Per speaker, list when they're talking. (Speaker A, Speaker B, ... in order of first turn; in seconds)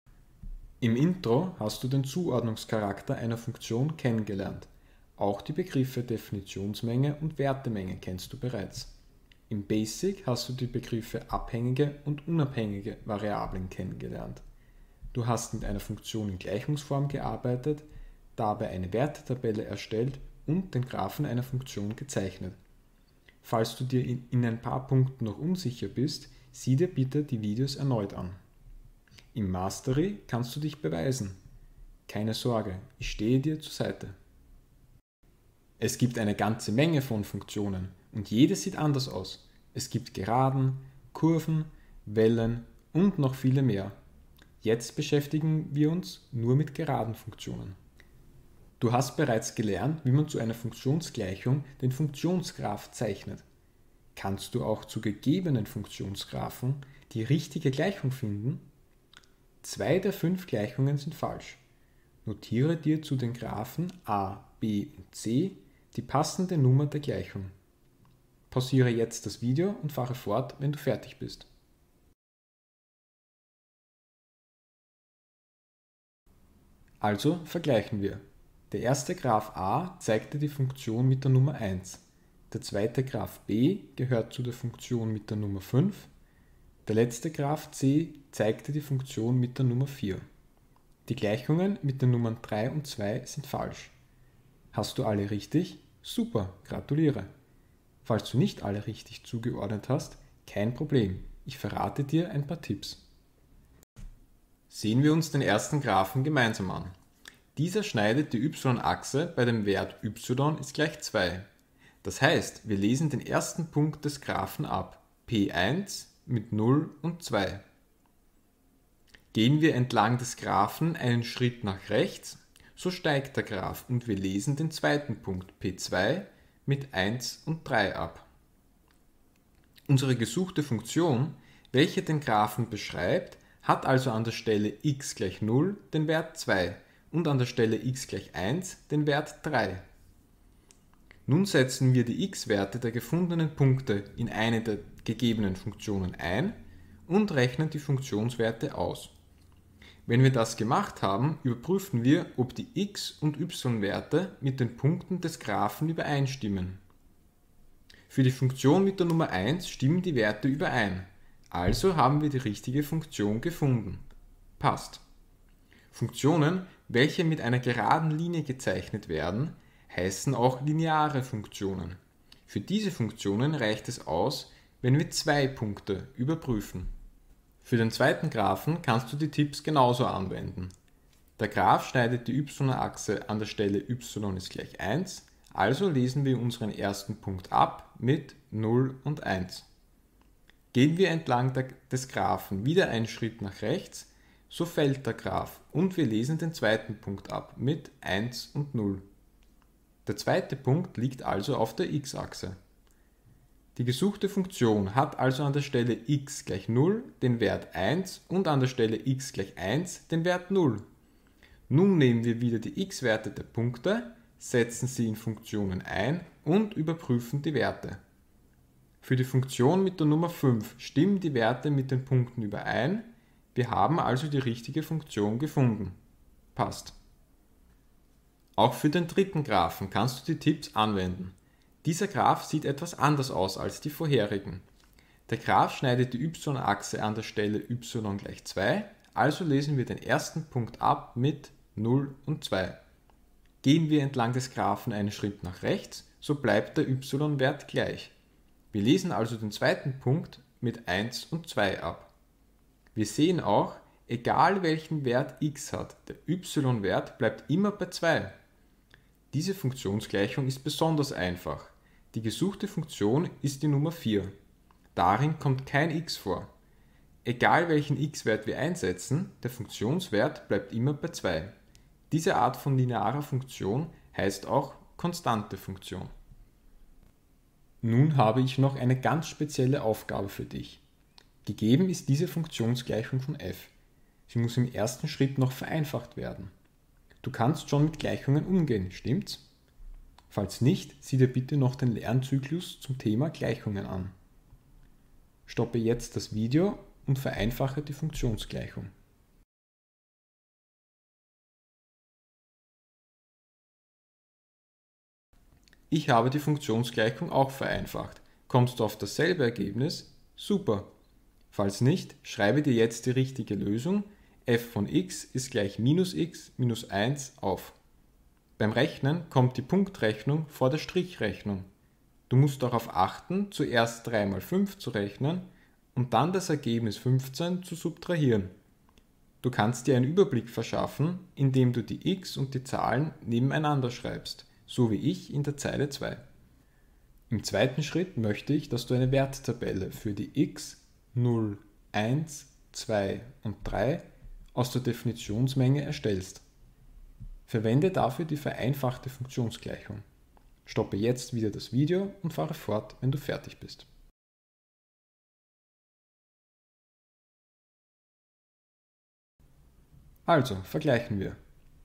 Speaker A: 0.8-8.9, 9.5-14.4, 15.1-22.6, 23.4-28.4, 29.3-31.4, 32.1-34.1, 35.8-44.0, 44.6-47.8, 48.8-53.4, 54.1-58.6, 59.6-61.6, 62.2-67.5, 68.5-71.5, 77.0-86.1, 86.9-90.2, 91.1-93.9, 94.7-97.3, 98.0-103.0, 104.7-106.9, 107.5-111.5, 112.0-117.6, 119.3-128.2, 129.9-139.8, 141.3-149.1, 150.1-156.8, 158.1-164.0, 164.6-165.0, 165.9-176.9, 177.6-180.7, 181.4-189.7, 190.7-199.0, 200.1-202.6, 203.8-210.8, 211.7-218.0, 219.0-226.0, 226.6-226.9, 228.6-234.6, 235.3-242.8, 243.6-248.1, 248.7-252.1, 252.9-258.3, 259.3-264.3, 264.9-266.5, 267.2-271.5, 272.1-276.1, 277.8-280.8, 281.4-283.7, 284.3-286.5, 287.2-289.4, 290.3-294.1, 295.5-298.9, 305.9-310.9, 311.5-317.8, 318.6-321.7, 322.3-328.5, 329.4-336.2, 337.3-346.4, 347.5-350.0, 350.7-353.9, 360.3-361.4